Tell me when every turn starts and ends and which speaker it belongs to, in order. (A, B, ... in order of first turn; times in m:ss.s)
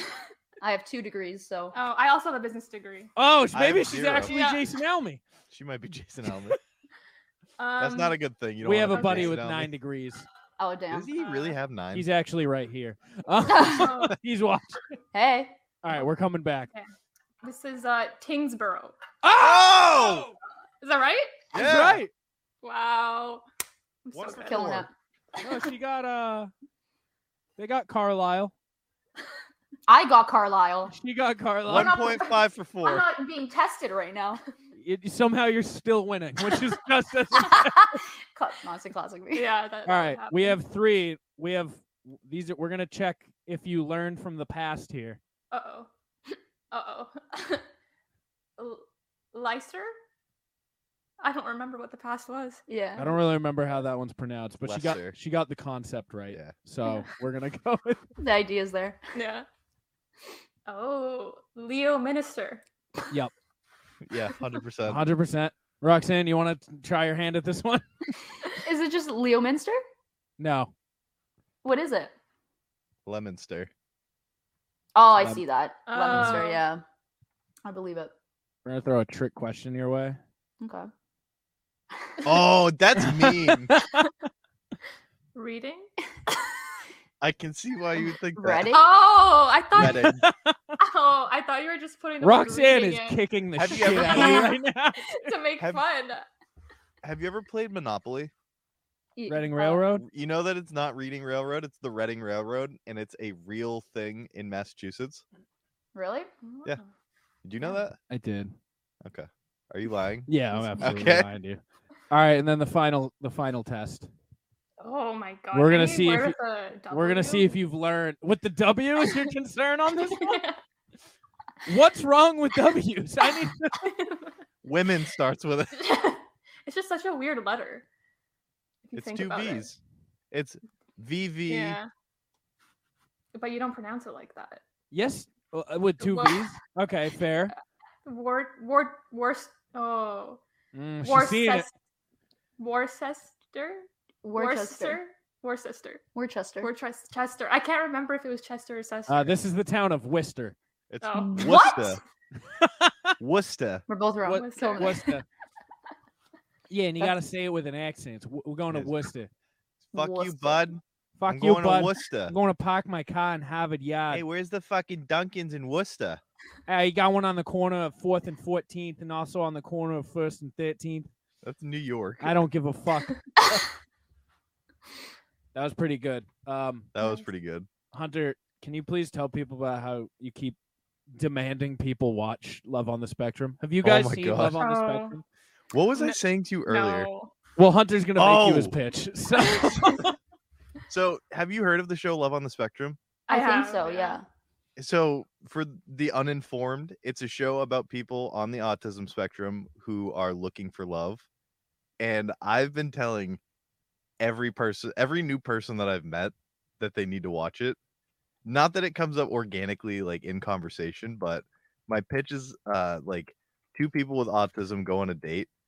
0:00.6-0:01.7 A
0:01.7-0:03.1 B
0:03.2-0:05.2 C
0:03.5-0:04.4 D
0:04.2-0:04.6 B
0:05.5-0:06.6 D
0:07.6-0:08.2 B
0:07.8-0:09.7 D
0:08.6-0:10.3 C
0:08.9-0:09.4 B
0:10.6-0:11.1 A
0:10.9-0:12.1 D
0:11.2-0:11.5 B
0:11.9-0:14.8 C
0:13.5-0:13.9 A
0:13.8-0:14.1 B
0:15.1-0:15.6 A
0:15.8-0:16.7 C
0:17.4-0:19.0 B
0:19.2-0:20.3 C
0:19.3-0:20.3 D
0:20.8-0:21.4 B
0:21.5-0:22.0 D
0:21.5-0:22.1 C
0:22.6-0:23.4 B
0:24.0-0:24.8 B
0:24.1-0:24.9 D
0:24.4-0:24.9 A
0:25.4-0:26.5 C
0:27.6-0:28.5 C
0:29.9-0:30.9 A
0:30.9-0:32.0 C
0:31.6-0:33.0 D
0:31.7-0:34.4 A
0:34.8-0:37.8 C
0:37.4-0:39.5 A
0:39.3-0:40.6 B
0:39.8-0:45.2 C
0:45.5-0:45.9 B
0:46.7-0:47.6 B
0:48.6-0:49.9 B
0:51.2-0:52.6 B
0:52.7-0:53.2 A
0:53.0-0:58.0 C
0:54.6-0:55.2 D
0:58.2-0:59.0 A
0:59.1-0:59.4 B
1:00.7-1:02.6 B
1:04.0-1:05.0 D
1:04.8-1:07.9 C
1:08.6-1:09.8 A
1:10.4-1:10.7 C
1:11.6-1:12.1 A
1:13.0-1:13.7 D
1:14.9-1:16.8 A
1:15.9-1:16.6 B
1:16.1-1:16.4 C
1:17.6-1:18.1 A
1:18.6-1:20.2 C
1:20.6-1:20.9 A
1:22.2-1:23.7 D
1:23.0-1:24.1 C
1:25.3-1:25.9 B
1:27.2-1:28.7 D
1:28.4-1:28.9 A
1:28.7-1:30.1 B
1:29.7-1:30.3 D
1:29.8-1:30.8 C
1:30.8-1:33.2 B
1:32.2-1:35.3 C
1:33.6-1:34.5 D
1:33.8-1:34.4 B
1:35.2-1:36.2 B
1:35.6-1:35.8 D
1:37.0-1:38.3 D
1:39.2-1:39.8 A
1:39.3-1:40.0 C
1:40.0-1:45.2 D
1:45.9-1:46.3 A
1:46.4-1:46.9 B
1:47.4-1:48.0 D
1:48.1-1:48.5 C
1:49.0-1:51.3 D
1:50.3-1:54.1 C
1:50.6-1:50.9 A
1:54.8-1:57.5 B
1:55.5-1:56.4 C
1:56.9-2:00.4 C
2:00.1-2:00.6 B
2:01.6-2:03.8 C
2:03.8-2:04.3 B
2:04.6-2:06.0 D
2:05.8-2:07.8 B
2:08.8-2:09.7 B
2:08.9-2:09.8 D
2:10.3-2:11.8 D
2:11.5-2:11.9 B
2:13.3-2:14.6 B
2:14.9-2:17.5 C
2:16.0-2:16.5 B
2:18.0-2:20.4 B
2:20.7-2:21.7 C
2:21.0-2:21.7 B
2:22.6-2:26.0 B
2:24.2-2:25.0 A
2:26.1-2:26.7 A
2:26.6-2:29.4 B
2:29.1-2:30.6 C
2:30.9-2:32.0 D
2:31.0-2:31.7 B
2:31.2-2:32.0 A
2:32.6-2:33.1 C
2:33.2-2:33.8 D
2:33.9-2:35.1 A
2:34.2-2:35.2 C
2:34.3-2:35.0 B
2:36.7-2:39.3 C
2:39.8-2:42.3 D
2:39.9-2:40.6 A
2:41.2-2:44.2 C
2:44.1-2:46.2 D
2:46.7-2:51.1 C
2:51.4-2:52.4 D
2:52.2-2:53.2 C
2:55.5-2:56.9 C
2:56.9-2:57.7 D
2:57.9-3:00.6 C
3:01.2-3:05.2 C
3:03.8-3:04.6 D
3:04.6-3:05.2 B
3:05.7-3:07.1 D
3:05.9-3:07.3 B
3:07.6-3:10.1 C
3:08.2-3:08.7 D
3:10.9-3:13.0 D
3:13.3-3:14.2 B
3:13.3-3:14.2 A
3:14.8-3:21.2 D
3:22.0-3:23.4 D
3:24.2-3:27.8 D
3:28.4-3:35.5 D